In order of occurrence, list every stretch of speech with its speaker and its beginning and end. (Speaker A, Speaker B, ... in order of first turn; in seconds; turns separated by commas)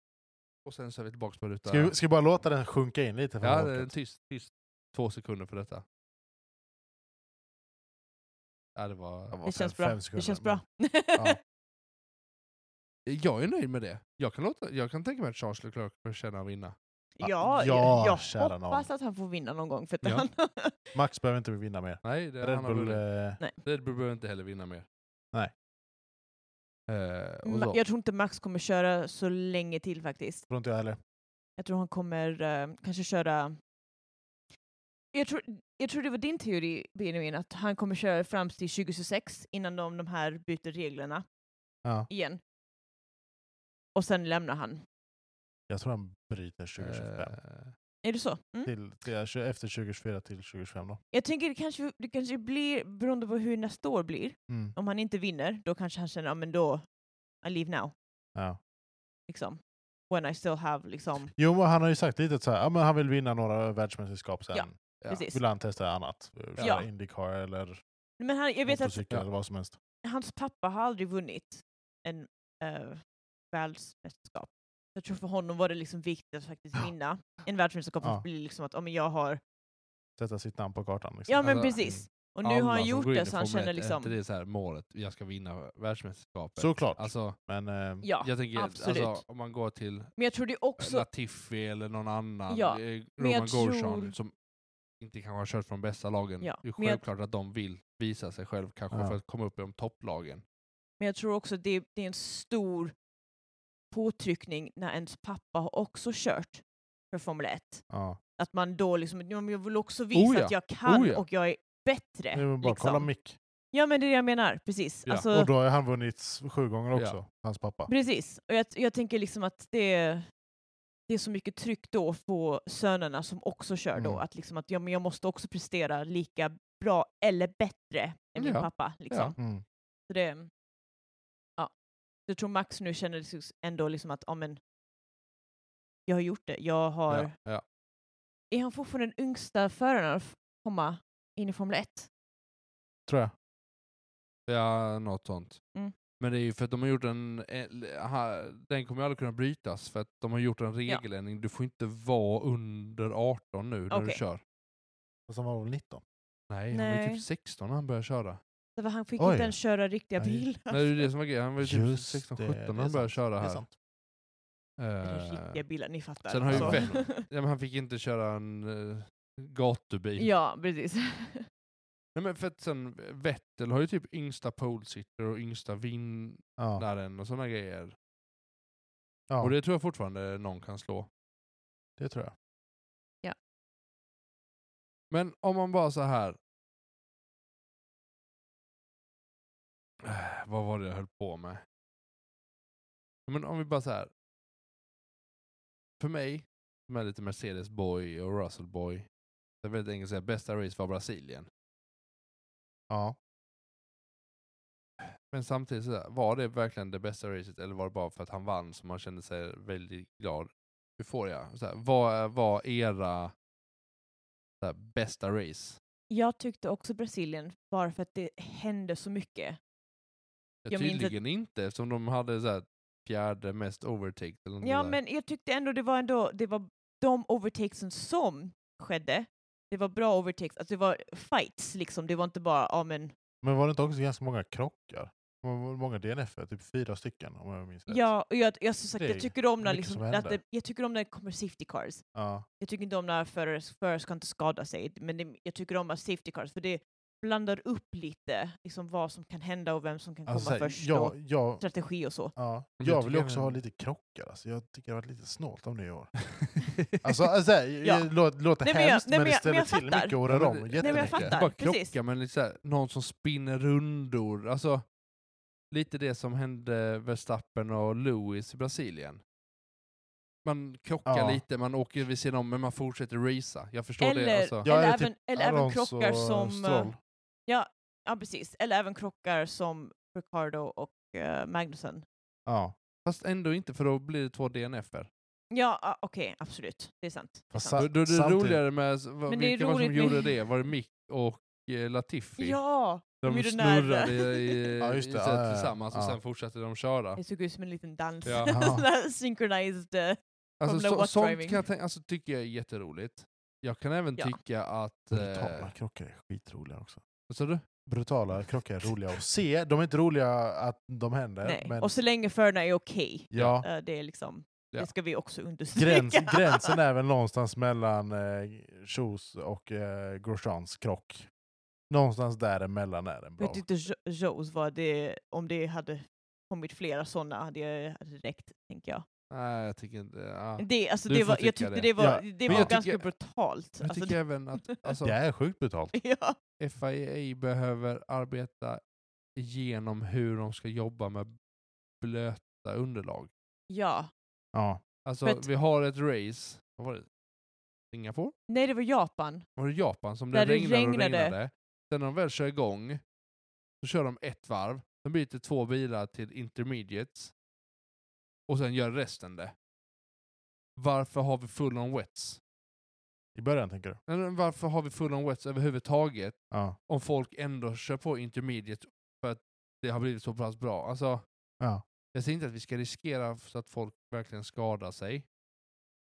Speaker A: 0.6-1.9, Speaker B: 1.7-3.9, Speaker A: 3.4-5.8, Speaker A: 8.8-9.4, Speaker B: 9.3-10.6, Speaker C: 9.4-11.4, Speaker A: 13.1-16.7, Speaker C: 17.2-20.9, Speaker B: 17.2-18.9, Speaker B: 20.9-23.4, Speaker A: 22.0-23.0, Speaker A: 23.6-24.9, Speaker A: 26.9-27.8, Speaker C: 27.4-30.4, Speaker B: 30.5-31.0, Speaker C: 31.6-33.5, Speaker C: 35.1-41.2, Speaker C: 42.1-42.4, Speaker C: 43.9-44.8, Speaker B: 45.7-47.3, Speaker A: 46.8-47.7, Speaker C: 48.0-48.7, Speaker B: 48.6-51.0, Speaker C: 51.1-56.9, Speaker B: 54.5-54.7, Speaker C: 57.4-57.9, Speaker C: 59.3-61.3, Speaker B: 61.3-67.8, Speaker C: 64.5-65.4, Speaker A: 65.0-65.3, Speaker C: 66.6-66.9, Speaker C: 68.2-69.0, Speaker B: 68.7-69.8, Speaker C: 70.0-73.0, Speaker C: 73.5-79.4, Speaker B: 80.2-82.0, Speaker C: 81.3-84.2, Speaker A: 81.4-81.8, Speaker A: 82.4-87.4, Speaker B: 86.6-88.1, Speaker C: 88.0-89.2, Speaker A: 88.2-90.1, Speaker C: 90.2-91.0, Speaker A: 90.8-94.3, Speaker C: 92.5-94.1, Speaker A: 95.0-100.4, Speaker C: 96.4-97.0, Speaker B: 98.9-99.2, Speaker C: 101.0-102.9, Speaker C: 103.9-107.8, Speaker B: 107.9-108.2, Speaker C: 108.4-113.1, Speaker A: 110.1-111.2, Speaker B: 112.3-113.4, Speaker C: 113.7-115.5, Speaker B: 115.3-117.9, Speaker C: 117.9-120.3, Speaker C: 121.1-129.3, Speaker B: 124.0-124.2, Speaker A: 128.4-129.3, Speaker B: 129.4-129.6, Speaker C: 130.1-130.5, Speaker C: 132.3-134.6, Speaker C: 136.1-137.3, Speaker A: 137.1-137.6, Speaker C: 138.5-142.1, Speaker B: 143.1-143.3, Speaker A: 144.5-145.6, Speaker A: 146.2-154.4, Speaker C: 153.9-154.2, Speaker B: 155.3-156.0, Speaker A: 156.5-158.4, Speaker C: 156.7-157.2, Speaker C: 158.8-161.1, Speaker B: 159.2-159.6, Speaker B: 160.2-160.4, Speaker A: 160.7-163.6, Speaker B: 161.6-163.8, Speaker A: 164.8-165.6, Speaker C: 165.0-167.2, Speaker A: 166.3-170.3, Speaker B: 166.5-166.9, Speaker C: 170.2-171.5, Speaker A: 172.1-177.9, Speaker B: 176.6-176.8, Speaker A: 179.4-181.1, Speaker B: 182.0-182.3, Speaker A: 185.1-186.4, Speaker A: 190.0-191.6, Speaker A: 193.3-194.1, Speaker A: 196.0-199.1, Speaker A: 199.6-201.5, Speaker B: 202.9-203.2, Speaker A: 205.0-213.3, Speaker A: 214.6-215.8, Speaker C: 216.1-219.6, Speaker A: 220.7-225.0, Speaker C: 220.7-221.2, Speaker C: 224.6-233.1, Speaker B: 233.4-238.1, Speaker C: 237.9-242.0, Speaker B: 239.0-240.4, Speaker B: 242.1-242.4, Speaker C: 242.6-252.3, Speaker B: 250.3-251.6, Speaker B: 252.3-256.1, Speaker A: 252.8-253.6, Speaker A: 256.3-257.2, Speaker B: 257.0-261.4, Speaker C: 257.8-258.1, Speaker C: 258.6-260.2, Speaker A: 260.3-264.8, Speaker C: 260.8-261.9, Speaker A: 265.7-269.2, Speaker A: 270.4-274.6, Speaker B: 271.1-271.4, Speaker C: 274.0-276.9, Speaker B: 274.6-277.0, Speaker C: 277.5-282.1, Speaker B: 282.5-282.8, Speaker A: 283.0-285.1, Speaker C: 285.5-287.8, Speaker B: 287.5-288.6, Speaker A: 287.7-292.6, Speaker C: 289.3-290.3, Speaker C: 292.4-294.7, Speaker A: 293.2-297.2, Speaker B: 294.8-296.2, Speaker C: 297.2-301.6, Speaker A: 298.2-298.5, Speaker B: 298.5-298.9, Speaker A: 300.6-305.7, Speaker B: 305.1-307.0, Speaker A: 307.3-307.6, Speaker B: 307.9-312.0, Speaker C: 311.4-316.8, Speaker B: 313.3-313.6, Speaker B: 315.7-321.3, Speaker B: 321.9-323.6, Speaker C: 323.4-329.0, Speaker A: 329.3-331.9, Speaker C: 330.6-334.8, Speaker B: 332.0-332.8, Speaker A: 332.4-333.1, Speaker A: 333.8-335.1, Speaker B: 335.0-335.9, Speaker C: 335.9-336.4, Speaker A: 336.6-338.8, Speaker A: 339.4-341.3, Speaker A: 342.0-343.3, Speaker C: 343.7-344.1, Speaker B: 344.5-344.8, Speaker A: 345.1-347.1, Speaker A: 347.9-348.3, Speaker C: 348.5-349.4, Speaker A: 349.6-353.0, Speaker C: 350.3-351.4, Speaker A: 353.8-357.3, Speaker A: 358.5-359.5, Speaker A: 360.8-362.4, Speaker B: 363.4-364.0, Speaker A: 364.1-366.4, Speaker A: 366.9-371.2, Speaker A: 372.1-375.3